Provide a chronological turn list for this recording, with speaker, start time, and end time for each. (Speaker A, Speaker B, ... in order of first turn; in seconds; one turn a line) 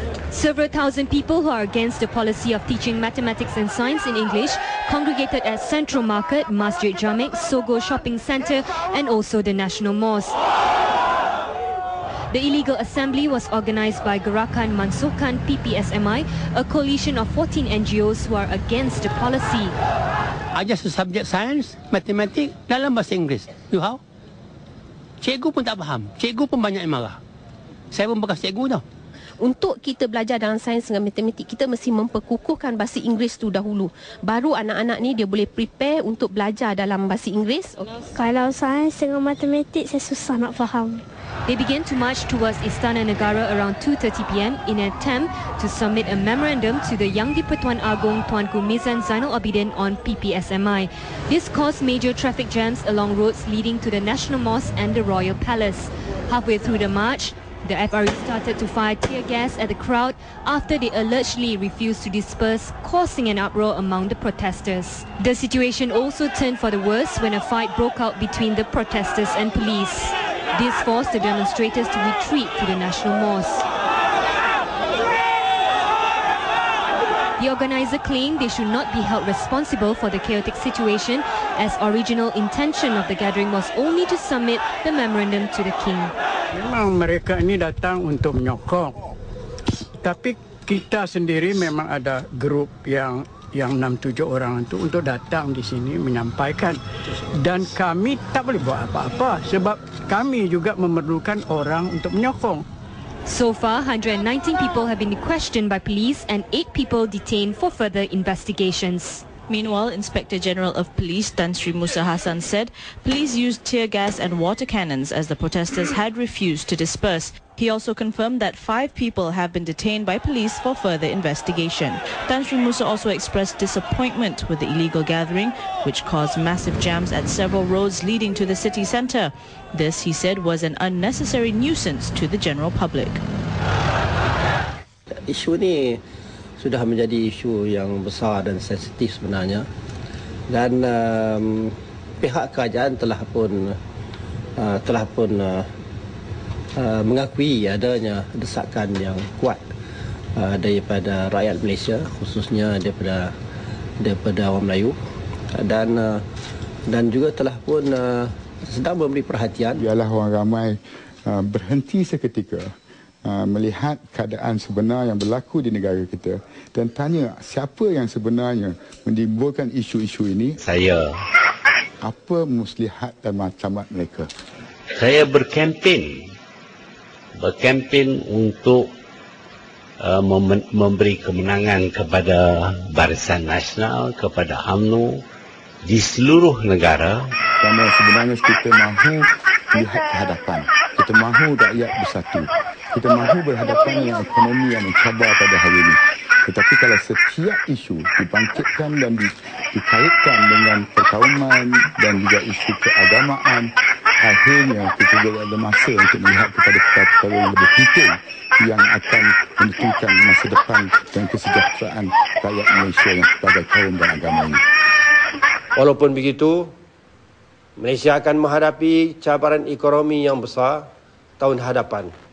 Speaker A: 0.3-10.4
Speaker A: 12.3-19.7
Speaker B: 20.6-24.0
Speaker B: 25.2-27.2
Speaker B: 27.9-28.8
Speaker C: 29.4-37.9
Speaker D: 38.2-41.0
Speaker A: 41.5-73.7
Speaker A: 77.4-86.1
Speaker E: 86.5-89.0
Speaker E: 90.0-96.8
Speaker E: 97.3-102.6
Speaker A: 103.2-109.2
Speaker F: 109.5-133.2
Speaker G: 135.3-136.0
Speaker G: 136.6-139.7
Speaker G: 140.5-143.8
Speaker G: 144.6-145.7
Speaker G: 146.8-149.7
Speaker G: 150.4-153.3
Speaker G: 154.0-155.0
Speaker G: 155.5-156.2
Speaker G: 156.9-159.8
Speaker H: 159.8-162.7
Speaker H: 163.2-170.6
Speaker I: 170.6-171.1
Speaker H: 172.0-174.3
Speaker I: 174.9-176.2
Speaker I: 177.4-178.9
Speaker I: 180.0-185.2
Speaker I: 185.8-187.2
Speaker H: 187.6-203.7
Speaker H: 204.2-214.6
Speaker J: 215.8-216.6
Speaker J: 217.8-220.8
Speaker J: 221.4-222.1